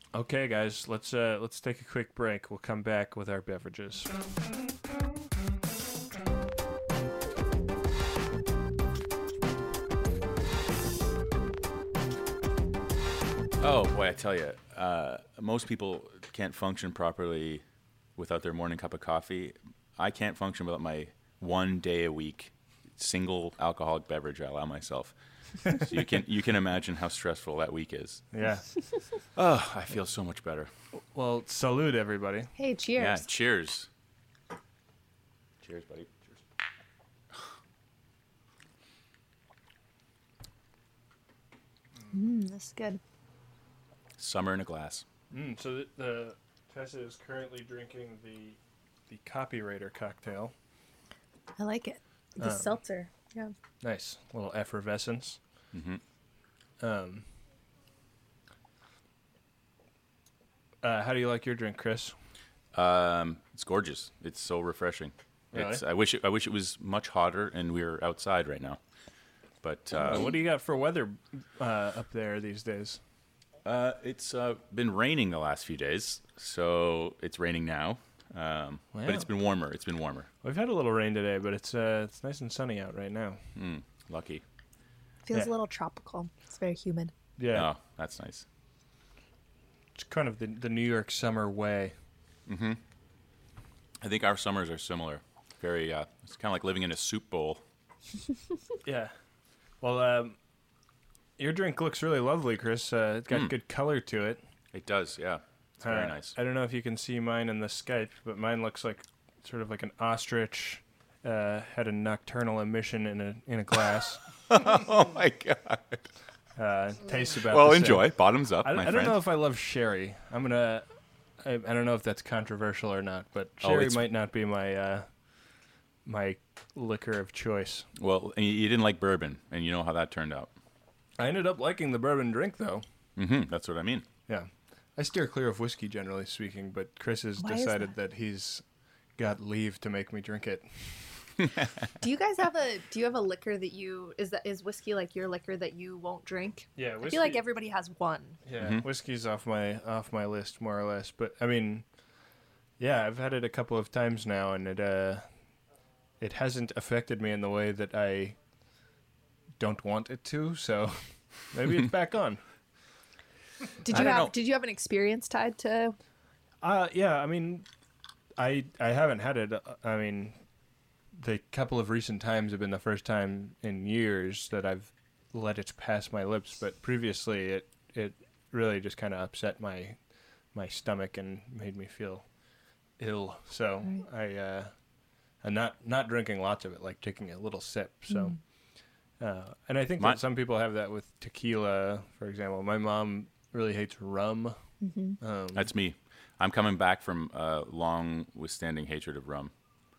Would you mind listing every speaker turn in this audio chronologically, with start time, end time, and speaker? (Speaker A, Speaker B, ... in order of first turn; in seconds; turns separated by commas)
Speaker A: 0.1-4.1, Speaker B: 13.6-17.6, Speaker B: 18.2-28.2, Speaker A: 28.3-28.6, Speaker B: 29.4-30.7, Speaker A: 31.0-32.5, Speaker C: 32.6-33.2, Speaker B: 33.0-33.9, Speaker B: 35.6-36.4, Speaker C: 42.1-43.0, Speaker B: 44.2-45.0, Speaker A: 45.3-50.5, Speaker C: 51.6-53.5, Speaker A: 52.4-52.7, Speaker A: 53.8-55.4, Speaker B: 55.7-56.0, Speaker A: 56.8-57.2, Speaker A: 60.8-62.1, Speaker B: 62.7-68.8, Speaker A: 65.5-65.8, Speaker B: 69.6-70.3, Speaker A: 70.0-73.0, Speaker B: 73.6-80.3, Speaker A: 78.9-79.3, Speaker A: 80.4-83.4, Speaker B: 83.5-84.4, Speaker C: 85.2-87.1, Speaker A: 87.4-87.7, Speaker B: 87.5-88.4, Speaker A: 89.9-91.9, Speaker B: 92.5-92.8, Speaker B: 94.0-97.6, Speaker A: 98.8-99.1, Speaker A: 99.8-100.4, Speaker A: 101.4-104.4, Speaker B: 104.7-106.3, Speaker A: 105.8-114.2, Speaker B: 114.5-116.0, Speaker A: 116.6-120.8, Speaker B: 117.4-119.2, Speaker A: 121.4-125.1, Speaker B: 123.6-124.0, Speaker A: 126.0-127.9, Speaker B: 128.0-130.5, Speaker A: 131.2-132.8, Speaker B: 133.2-134.1, Speaker A: 134.3-138.6, Speaker C: 137.4-137.9, Speaker A: 139.2-140.9, Speaker B: 141.4-141.9, Speaker C: 142.0-148.4, Speaker A: 146.8-147.4, Speaker A: 148.4-151.8, Speaker B: 148.6-148.8, Speaker A: 152.8-155.2, Speaker A: 156.2-158.4, Speaker A: 159.6-161.0, Speaker A: 161.5-162.4, Speaker C: 163.8-165.9, Speaker B: 163.9-164.3, Speaker A: 166.6-167.7, Speaker A: 168.4-170.4, Speaker A: 171.1-180.0, Speaker A: 180.5-182.2, Speaker A: 183.0-184.7, Speaker A: 185.4-188.3, Speaker C: 188.1-188.3, Speaker A: 189.2-194.6, Speaker C: 194.8-195.2, Speaker A: 195.2-195.7, Speaker B: 195.5-199.5